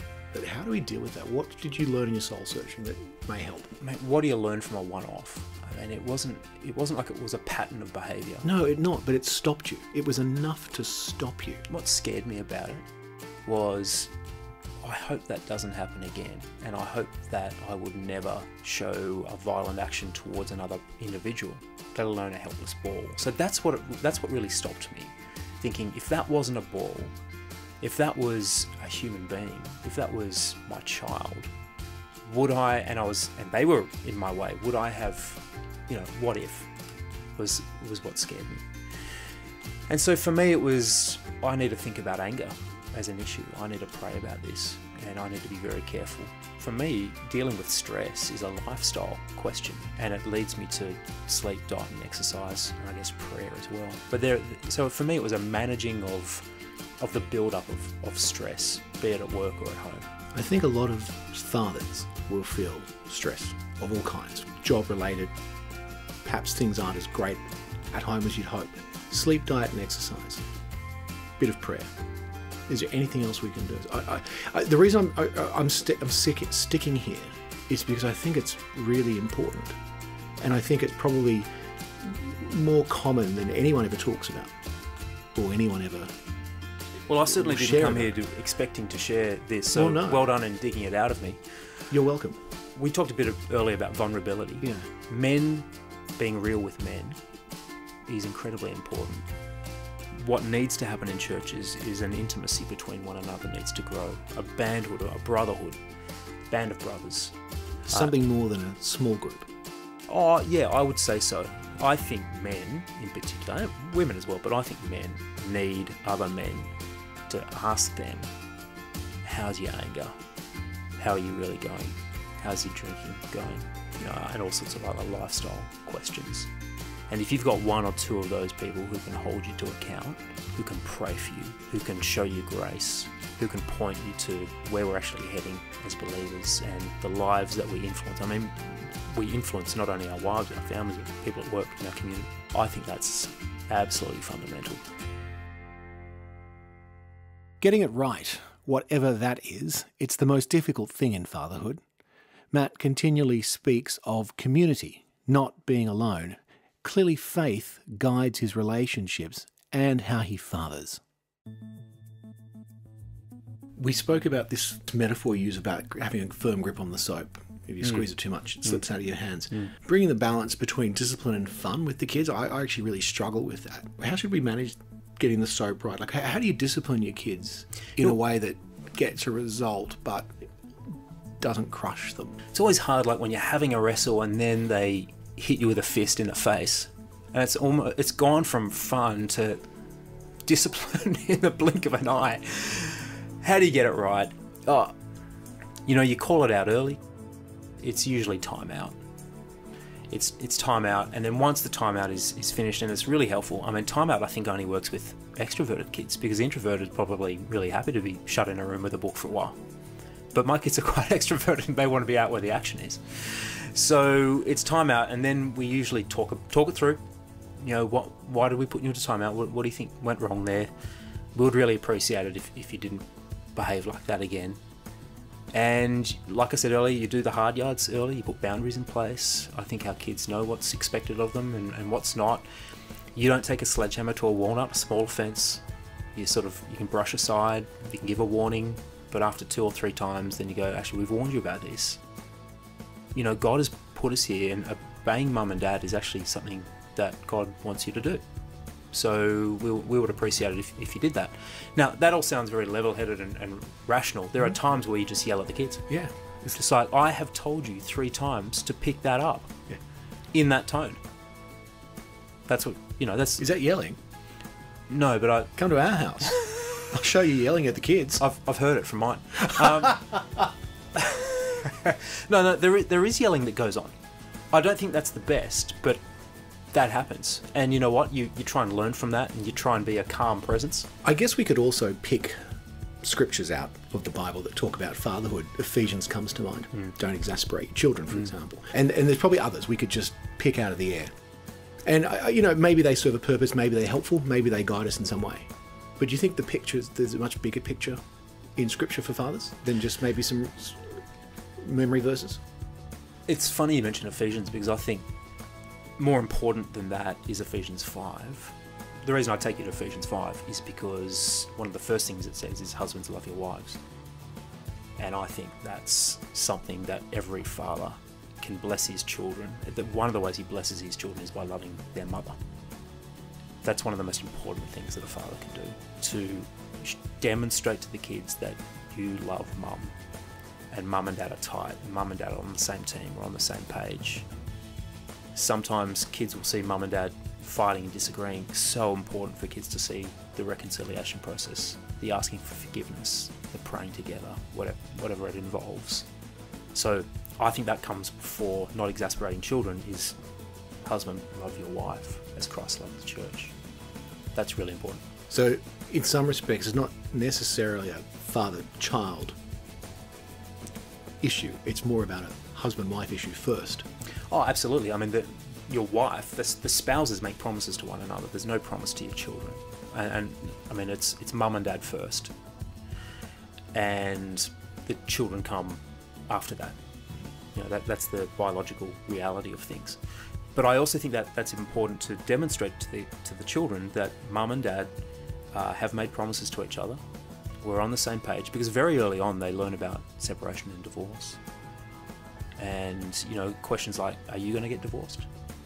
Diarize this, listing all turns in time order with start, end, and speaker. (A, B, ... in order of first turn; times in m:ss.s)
0:00.3-0:03.7 A
0:03.8-0:08.5 B
0:08.4-0:11.6 A
0:11.7-0:12.9 B
0:13.4-0:14.1 B
0:14.8-0:27.1 B
0:27.8-0:31.5 B
0:32.2-0:36.7 B
0:37.4-0:38.7 B
0:39.9-0:56.4 B
0:57.0-1:00.1 B
1:00.3-1:05.3 A
1:06.2-1:10.4 A
1:11.4-1:11.9 A
1:12.7-1:19.8 A
1:20.4-1:21.5 A
1:22.0-1:24.5 A
1:25.4-1:26.1 A
1:27.1-1:31.4 B
1:27.2-1:28.1 A
1:29.7-1:30.3 A
1:31.9-1:32.4 A
1:32.7-1:37.2 B
1:34.6-1:34.9 A
1:38.1-1:39.3 B
1:40.1-1:45.8 B
1:46.5-1:47.4 B
1:47.9-1:49.5 A
1:50.1-1:56.7 B
1:57.3-1:58.3 B
1:59.2-2:00.2 B
2:01.0-2:06.5 B
2:07.1-2:24.8 B
2:27.6-2:31.8 A
2:32.5-2:41.0 A
2:43.8-3:00.3 A
3:01.4-3:02.4 A
3:02.5-3:09.6 B
3:10.4-3:14.9 B
3:15.9-3:17.0 B
3:17.8-3:19.0 B
3:20.1-3:29.6 B
3:30.3-3:37.0 B
3:37.6-3:40.7 B
3:41.4-3:44.6 B
3:45.5-3:52.4 B
3:53.1-3:55.6 B
3:56.1-4:02.0 B
4:03.1-4:08.2 B
4:08.9-4:15.9 B
4:15.9-4:16.5 A
4:16.5-4:19.6 B
4:20.3-4:21.0 B
4:22.5-4:23.4 B
4:23.4-4:24.0 A
4:24.9-4:25.5 B
4:25.6-4:28.2 A
4:28.2-4:34.0 B
4:34.5-4:36.0 B
4:36.7-4:40.9 B
4:41.0-4:42.4 A
4:43.0-4:51.1 A
4:51.9-4:58.0 A
4:58.6-5:00.9 A
5:01.6-5:02.4 A
5:03.3-5:05.1 B
5:06.0-5:13.8 B
5:15.0-5:22.4 B
5:23.6-5:29.9 B
5:30.7-5:34.3 B
5:35.3-5:46.1 B
5:46.7-5:50.2 B
5:50.8-5:53.5 B
5:54.3-5:55.1 B
5:55.3-5:59.4 A
6:01.2-6:03.9 A
6:04.3-6:12.3 B
6:13.7-6:16.8 B
6:17.5-6:20.0 B
6:20.5-6:24.9 B
6:25.5-6:27.0 B
6:27.6-6:31.4 B
6:32.6-6:35.3 B